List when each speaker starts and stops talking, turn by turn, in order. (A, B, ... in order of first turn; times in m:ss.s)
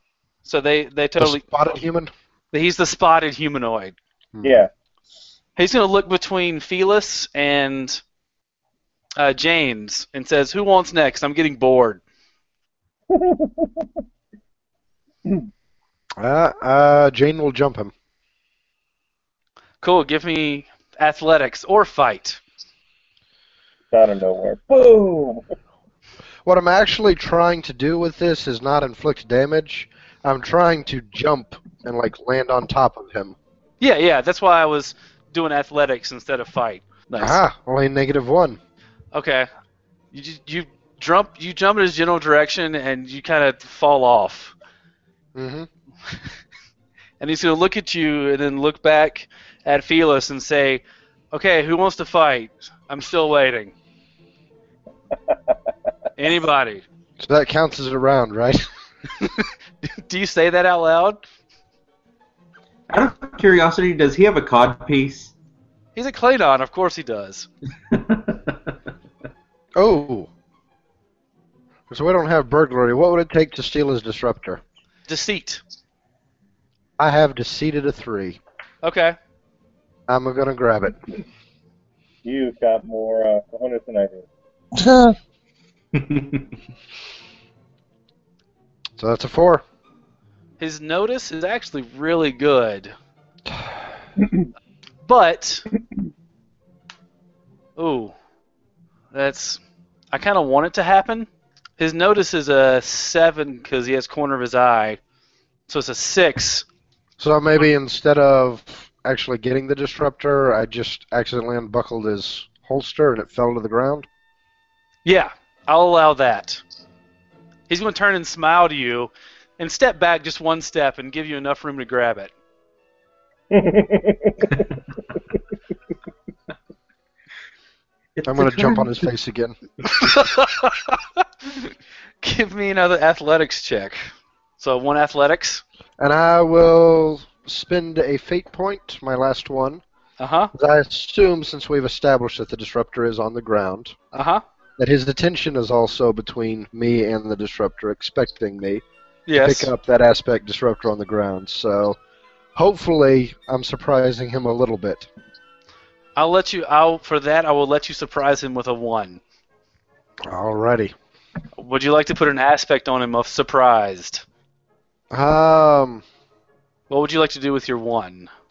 0:00.4-0:01.4 A
0:01.2-0:02.1 B
0:02.5-0:04.0 A
0:04.3-0:04.7 B
0:04.4-0:04.7 C
0:05.6-0:08.0 A
0:09.2-0:12.0 A
0:13.1-0:13.9 C
0:16.2-0:17.9 B
0:19.8-0:22.4 A
0:23.9-0:25.4 C
0:26.4-0:33.4 B
0:33.8-0:37.4 A
0:37.2-0:38.6 B
0:39.1-0:39.5 A
0:40.1-0:44.5 A
0:45.4-0:45.7 B
0:47.2-0:53.7 A
0:56.2-0:56.8 A
0:57.2-0:58.7 B
0:59.2-1:01.2 A
1:02.9-1:05.3 D
1:06.0-1:07.5 A
1:07.9-1:08.6 D
1:09.8-1:10.3 B
1:11.9-1:14.6 B
1:15.1-1:15.6 A
1:17.0-1:18.4 B
1:18.8-1:19.2 A
1:20.1-1:21.0 B
1:22.2-1:24.3 C
1:26.0-1:26.4 D
1:29.0-1:29.6 B
1:30.6-1:32.9 A
1:35.0-1:35.7 A
1:37.8-1:38.1 A
1:39.1-1:39.6 A
1:40.1-1:45.0 A
1:45.7-1:46.6 A
1:47.2-1:54.1 B
1:55.0-1:56.6 A
1:57.7-2:02.3 A
2:03.5-2:04.7 C
2:08.2-2:08.9 D
2:08.2-2:09.6 B
2:09.9-2:14.1 A
2:14.6-2:15.6 A
2:16.0-2:19.8 B
2:20.2-2:20.5 A
2:20.6-2:24.0 B
2:24.1-2:24.4 A
2:24.8-2:28.8 B
2:29.3-2:29.7 A
2:29.4-2:32.0 B
2:32.6-2:35.1 B
2:36.2-2:39.2 A
2:40.3-2:40.9 B
2:41.6-2:44.2 A
2:45.1-2:46.0 B
2:46.9-2:48.3 A